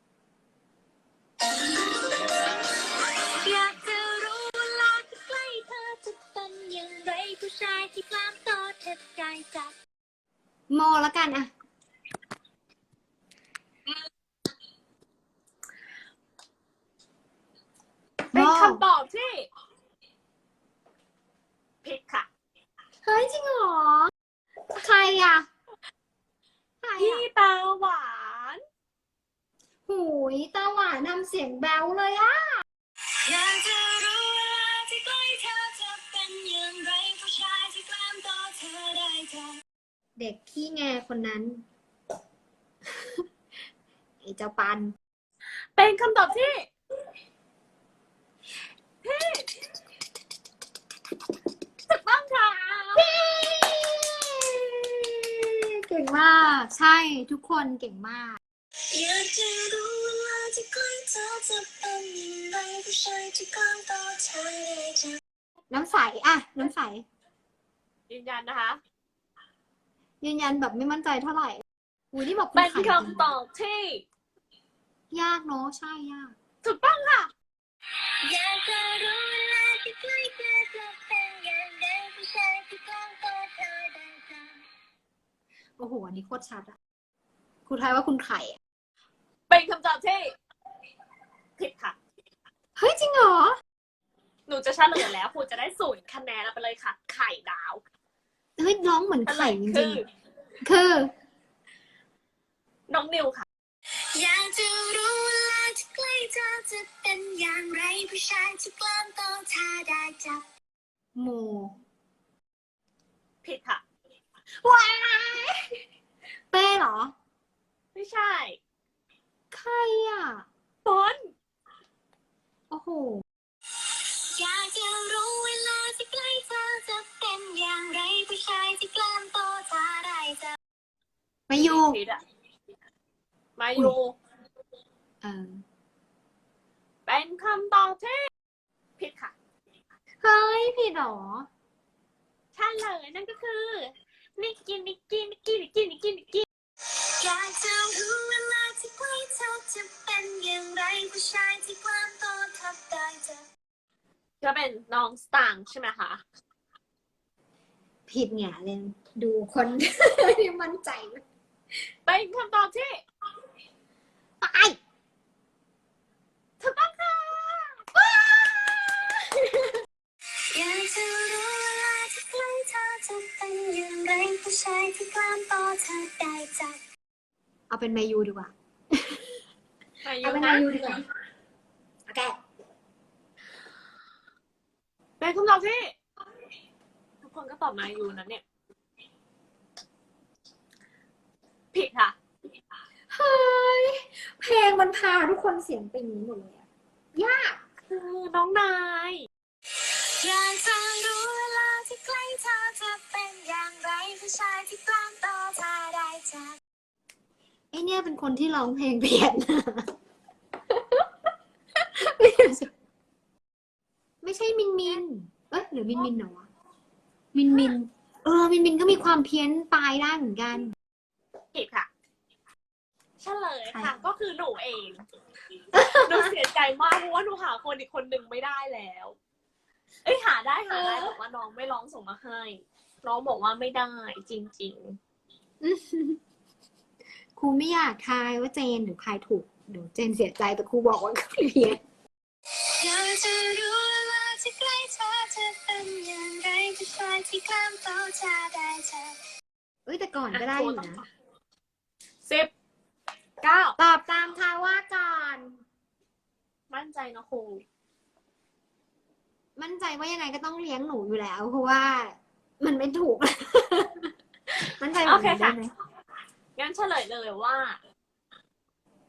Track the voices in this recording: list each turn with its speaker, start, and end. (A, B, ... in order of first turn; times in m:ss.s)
0:03.4-0:09.7 A
0:10.7-0:11.5 B
0:18.3-0:18.8 B
0:18.3-0:19.5 C
0:21.8-0:22.3 C
0:23.0-0:24.1 B
0:24.7-0:25.5 B
0:26.8-0:27.2 B
0:27.0-0:28.6 C
0:29.9-0:32.6 B
0:33.2-0:39.6 A
0:40.2-0:41.6 B
0:44.2-0:45.0 B
0:45.8-0:46.7 C
0:49.0-0:49.5 C
0:51.9-0:53.1 C
0:53.0-0:58.4 B
0:58.9-1:05.2 A
1:05.7-1:07.1 B
1:08.1-1:08.8 C
1:10.2-1:13.3 B
1:12.6-1:14.0 C
1:15.1-1:16.4 B
1:16.6-1:17.3 C
1:18.2-1:24.6 A
1:25.8-1:26.8 B
1:27.7-1:28.6 B
1:29.5-1:30.3 C
1:31.6-1:32.0 C
1:32.8-1:33.6 B
1:34.5-1:37.8 C
1:38.6-1:40.0 B
1:39.3-1:40.1 C
1:40.6-1:41.1 B
1:42.9-1:43.4 C
1:44.1-1:50.5 A
1:51.2-1:51.8 B
1:53.4-1:53.8 C
1:54.6-1:55.8 B
1:56.5-1:57.1 B
1:58.0-1:58.6 C
1:59.5-2:00.5 B
2:00.8-2:01.3 C
2:02.7-2:03.2 B
2:04.3-2:10.6 A
2:11.5-2:12.0 B
2:11.5-2:12.2 C
2:13.6-2:14.2 C
2:15.2-2:15.6 B
2:17.1-2:18.3 C
2:19.0-2:19.4 C
2:20.2-2:21.5 B
2:22.6-2:26.5 C
2:27.2-2:33.5 A
2:34.4-2:36.2 C
2:38.1-2:41.2 B
2:42.1-2:43.0 C
2:44.4-2:44.8 B
2:46.6-2:47.8 C
2:48.1-2:49.4 B
2:50.5-2:56.8 A
2:57.7-2:59.3 B
3:00.0-3:01.0 C
3:00.2-3:01.0 B
3:02.1-3:02.4 B
3:05.2-3:06.0 C
3:07.2-3:08.4 C
3:11.7-3:12.2 C
3:13.1-3:16.6 B
3:17.2-3:17.6 B
3:17.9-3:19.3 C
3:19.8-3:26.6 A
3:27.7-3:29.9 B
3:30.7-3:31.1 B
3:31.9-3:32.7 B
3:34.2-3:36.5 B
3:37.3-3:40.7 B
3:41.5-3:41.9 C
3:43.2-3:45.0 C
3:43.7-3:44.0 B
3:45.8-3:46.3 B
3:45.8-3:49.2 C
3:50.0-3:55.0 C
3:50.7-3:51.1 B
3:55.6-3:56.2 B
3:57.4-4:01.8 B
4:02.8-4:09.2 A
4:09.9-4:11.0 B
4:10.3-4:11.1 C
4:12.2-4:12.5 C
4:13.4-4:13.8 C
4:13.8-4:15.6 B
4:16.7-4:17.6 C
4:19.6-4:24.1 B
4:24.8-4:25.7 B
4:25.0-4:25.6 C
4:26.6-4:27.8 C